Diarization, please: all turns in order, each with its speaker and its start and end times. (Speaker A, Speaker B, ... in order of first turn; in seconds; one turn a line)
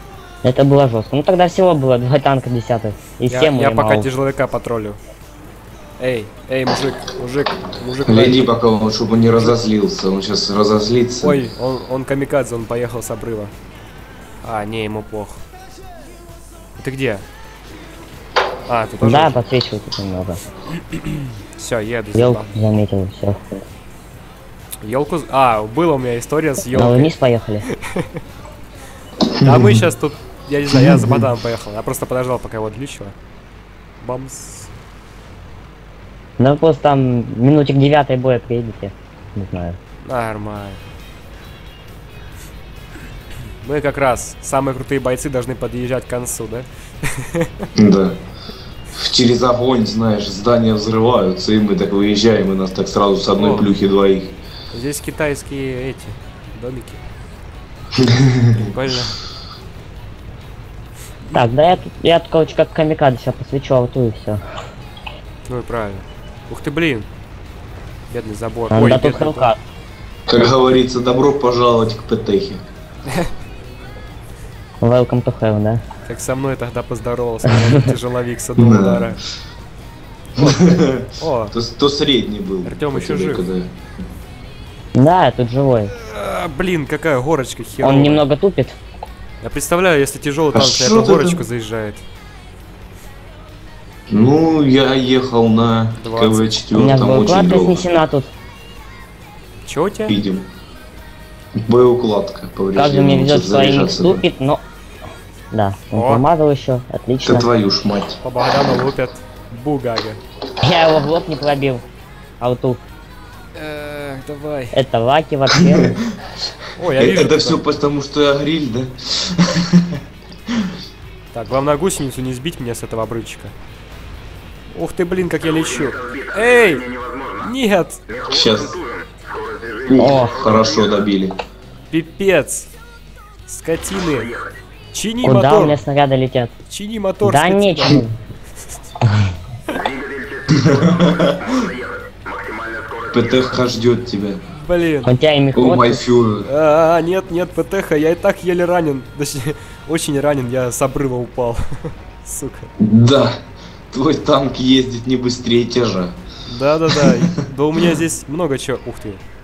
Speaker A: 0.4-4.1
Speaker B: 3.3-5.0
Speaker B: 6.0-8.5
Speaker C: 8.1-11.4
Speaker B: 9.4-9.7
Speaker B: 11.2-13.5
Speaker B: 14.4-15.4
Speaker B: 16.8-17.3
Speaker B: 18.7-19.4
Speaker A: 19.0-20.4
Speaker B: 20.9-22.6
Speaker A: 22.1-23.6
Speaker B: 24.8-27.1
Speaker A: 26.7-27.7
Speaker B: 27.7-28.1
Speaker C: 29.3-29.9
Speaker B: 29.4-33.1
Speaker C: 30.7-31.3
Speaker B: 34.0-34.7
Speaker A: 36.4-39.8
Speaker B: 40.0-40.8
Speaker B: 43.6-47.7
Speaker C: 47.8-48.2
Speaker C: 48.9-54.4
Speaker B: 53.3-53.8
Speaker B: 54.7-57.0
Speaker C: 58.0-58.6
Speaker B: 58.6-59.2
Speaker A: 61.3-64.4
Speaker B: 65.5-67.1
Speaker B: 68.1-69.5
Speaker A: 68.7-69.6
Speaker C: 70.3-72.6
Speaker A: 74.8-75.8
Speaker B: 76.1-79.2
Speaker C: 78.6-79.2
Speaker C: 80.4-83.7
Speaker B: 81.2-81.5
Speaker B: 82.6-83.5
Speaker A: 84.9-85.9
Speaker B: 85.9-88.2
Speaker A: 87.8-88.8
Speaker B: 89.4-92.0
Speaker C: 90.5-91.5
Speaker C: 94.1-97.9
Speaker B: 96.0-96.5
Speaker A: 96.7-98.3
Speaker B: 99.7-100.2
Speaker C: 100.1-100.5
Speaker C: 101.6-104.2
Speaker A: 102.8-104.6
Speaker A: 105.5-107.5
Speaker B: 105.9-106.2
Speaker C: 107.2-108.2
Speaker B: 108.2-110.2
Speaker A: 110.6-111.8
Speaker A: 112.4-112.8
Speaker B: 113.5-114.8
Speaker A: 114.7-115.9
Speaker C: 115.5-115.8
Speaker B: 116.8-117.6
Speaker C: 116.9-120.0
Speaker B: 121.3-123.5
Speaker B: 124.7-128.1
Speaker C: 128.2-128.8
Speaker C: 129.9-131.4
Speaker A: 129.9-130.4
Speaker B: 131.9-132.7
Speaker B: 133.5-134.4
Speaker B: 134.9-135.8
Speaker A: 135.2-136.5
Speaker B: 136.7-138.1
Speaker A: 137.2-138.1
Speaker C: 140.5-141.6
Speaker C: 143.1-144.4
Speaker B: 144.5-145.1
Speaker A: 145.1-146.0
Speaker C: 145.6-146.5
Speaker B: 146.4-152.7
Speaker C: 152.8-153.4
Speaker C: 153.9-156.2
Speaker B: 156.5-159.2
Speaker C: 156.9-157.2